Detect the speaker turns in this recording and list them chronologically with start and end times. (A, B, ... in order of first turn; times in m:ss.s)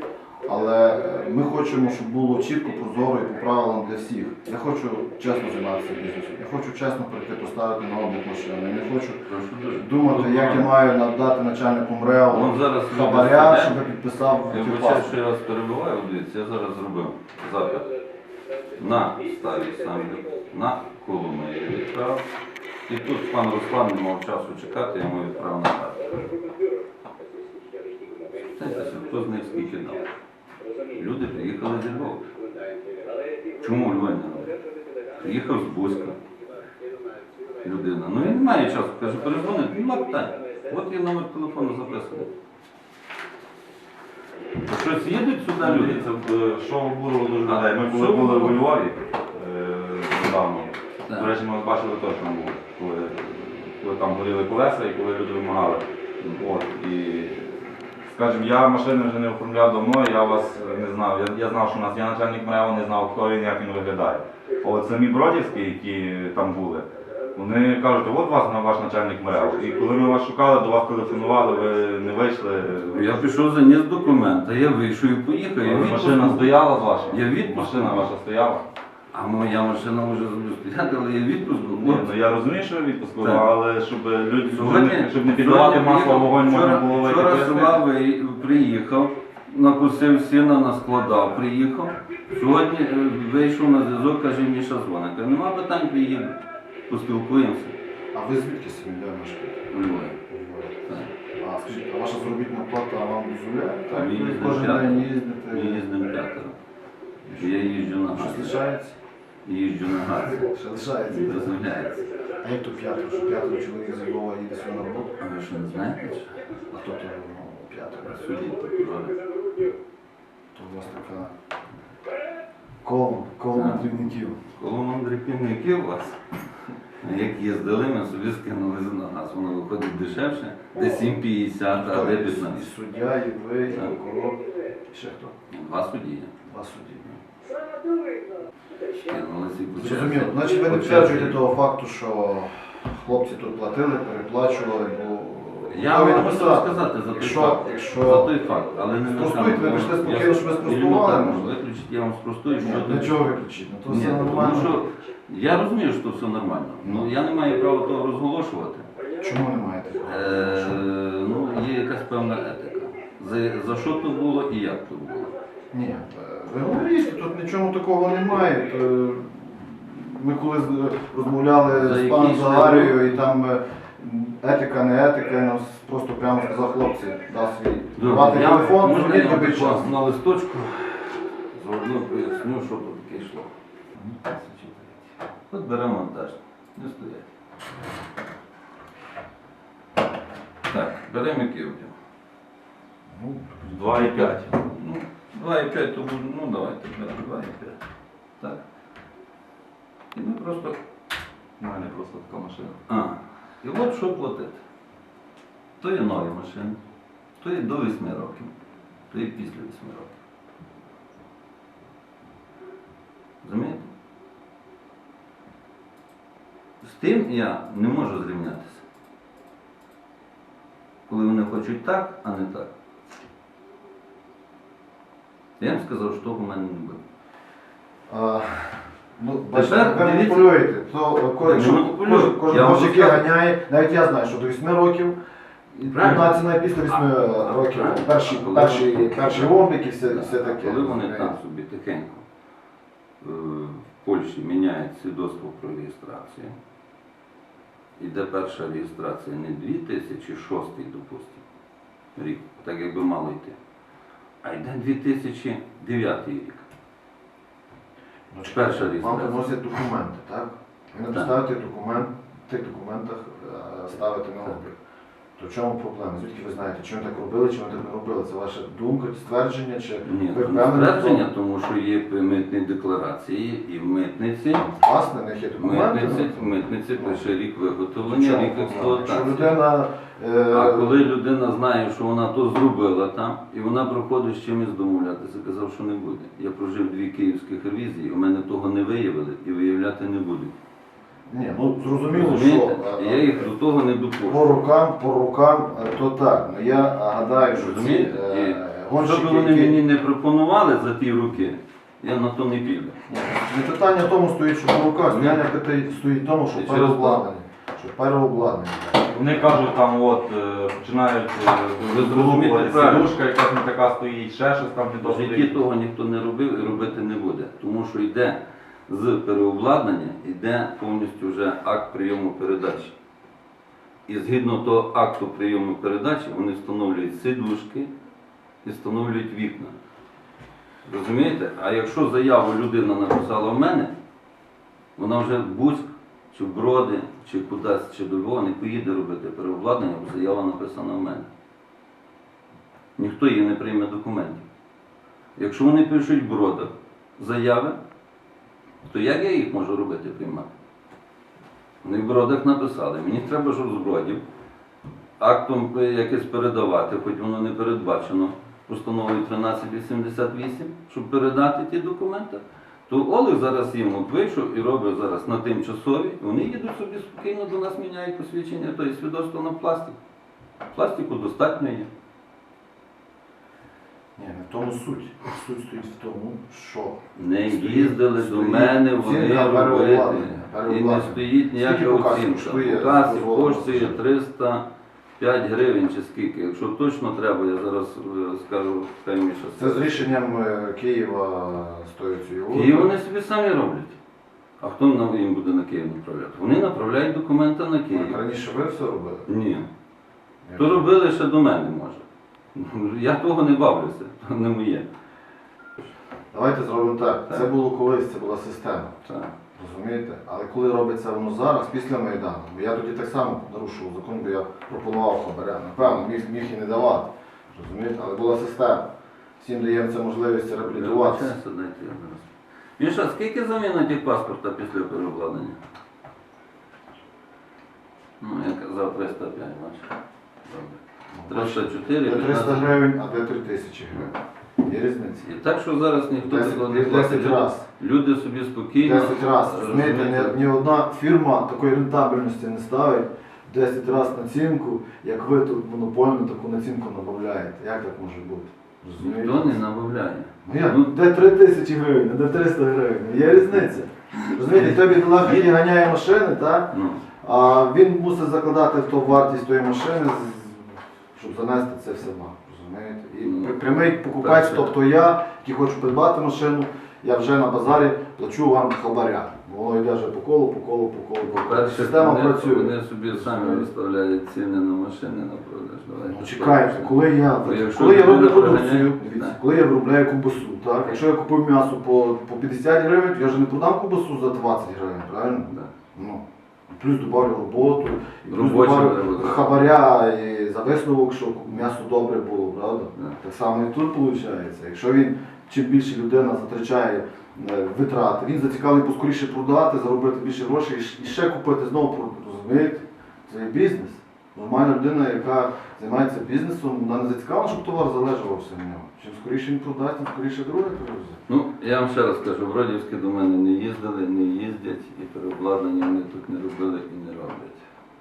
0:00.4-0:15.2 A
0:09.2-0:10.8 B
0:12.3-0:13.8 B
0:14.5-0:18.0 B
0:18.7-0:22.2 B
0:22.9-0:26.2 B
0:28.4-0:30.1 B
0:30.9-0:32.3 B
0:33.5-0:34.6 B
0:35.1-0:36.2 B
0:37.6-0:42.3 B
0:44.6-0:46.1 B
0:45.6-1:13.1 C
0:47.4-0:48.6 B
0:51.1-0:51.3 B
1:12.9-1:18.1 B
1:15.6-1:18.6 C
1:19.1-1:22.1 B
1:21.7-1:27.8 C
1:23.2-1:23.5 B
1:24.5-1:36.3 B
1:36.9-1:37.7 B
1:38.1-1:39.6 A
1:39.7-1:40.2 B
1:40.3-1:40.7 A
1:41.4-1:45.9 A
1:43.9-1:46.5 B
1:47.2-1:49.0 A
1:47.4-1:48.6 B
1:49.4-1:50.5 B
1:50.3-1:51.5 A
1:51.1-1:52.1 B
1:52.4-1:55.2 A
1:55.2-1:56.4 B
1:56.7-1:58.5 A
1:58.1-1:59.2 B
2:00.5-2:01.3 A
2:02.8-2:04.4 A
2:03.5-2:06.2 B
2:07.0-2:12.7 B
2:10.8-2:11.2 A
2:11.7-2:15.3 A
2:15.5-2:16.3 B
2:16.5-2:17.2 A
2:19.0-2:21.4 B
2:19.7-2:28.3 A
2:25.7-2:33.3 B
2:29.0-2:31.5 A
2:32.6-2:34.8 A
2:33.9-2:38.9 B
2:36.8-2:37.1 A
2:39.2-2:40.8 A
2:40.0-2:45.3 B
2:45.7-2:59.9 A
2:51.7-2:53.2 B
2:58.0-3:03.5 B
3:04.2-3:04.9 B
3:05.5-3:07.3 B
3:10.7-3:11.9 B
3:13.1-3:13.5 A
3:13.6-3:14.5 C
3:14.0-3:17.8 B
3:20.1-3:20.8 B
3:21.6-3:22.8 C
3:22.9-3:24.6 B
3:25.8-3:26.8 B
3:27.4-3:28.5 B
3:29.1-3:30.1 B
3:33.4-3:33.9 B
3:36.8-3:38.8 B
3:41.1-3:42.7 B
3:45.6-3:47.0 B
3:48.1-3:55.2 A
3:49.5-3:50.6 B
3:51.4-3:53.3 B
3:55.7-4:01.3 A
3:55.9-4:02.2 B
4:03.2-4:06.5 B
4:08.0-4:11.4 B
4:12.2-4:13.5 B
4:14.4-4:16.6 B
4:18.3-4:24.7 A
4:18.5-4:19.5 B
4:25.4-4:31.2 A
4:30.0-4:34.8 B
4:34.8-4:37.2 A
4:35.6-4:39.5 B
4:38.0-4:41.1 A
4:40.5-4:50.5 B
4:51.3-4:53.3 A
4:52.1-4:54.7 B
4:54.2-4:59.8 A
4:57.5-5:03.0 B
5:03.1-5:09.6 A
5:05.0-5:05.5 B
5:06.5-5:07.2 B
5:09.1-5:15.6 C
5:11.9-5:13.1 B
5:15.0-5:22.9 B
5:24.1-5:27.9 B
5:28.6-5:29.7 B
5:30.9-5:33.9 B
5:35.0-5:41.3 B
5:43.0-5:44.4 B
5:45.4-5:47.8 B
5:48.9-5:50.5 B
5:51.8-5:54.2 B
5:55.2-6:09.9 B
6:10.7-6:11.9 B
6:14.2-6:24.0 A
6:17.2-6:24.6 B
6:25.2-6:30.1 B
6:29.5-6:32.9 A
6:32.5-6:33.9 B
6:34.6-6:38.2 B
6:37.9-6:39.2 A
6:39.3-6:39.6 B
6:40.4-6:40.9 A
6:40.6-6:42.0 B
6:42.5-6:44.9 B
6:46.3-6:48.9 A
6:49.0-6:49.3 B
6:49.6-6:58.8 A
6:59.4-7:01.3 A
7:00.6-7:02.2 B
7:02.8-7:05.6 B
7:08.2-7:09.9 B
7:10.4-7:12.8 B
7:11.1-7:14.1 A
7:14.6-7:15.3 A
7:15.2-7:20.4 B
7:16.2-7:17.6 A
7:18.8-7:29.6 A
7:29.0-7:30.9 B
7:30.4-7:36.7 A
7:33.6-7:35.5 B
7:36.7-7:37.0 B
7:37.2-7:53.7 A
7:43.2-7:43.6 B
7:44.2-7:44.8 B
7:51.2-7:59.4 B
7:56.0-8:31.2 A
8:08.3-8:09.7 B
8:31.3-8:37.6 B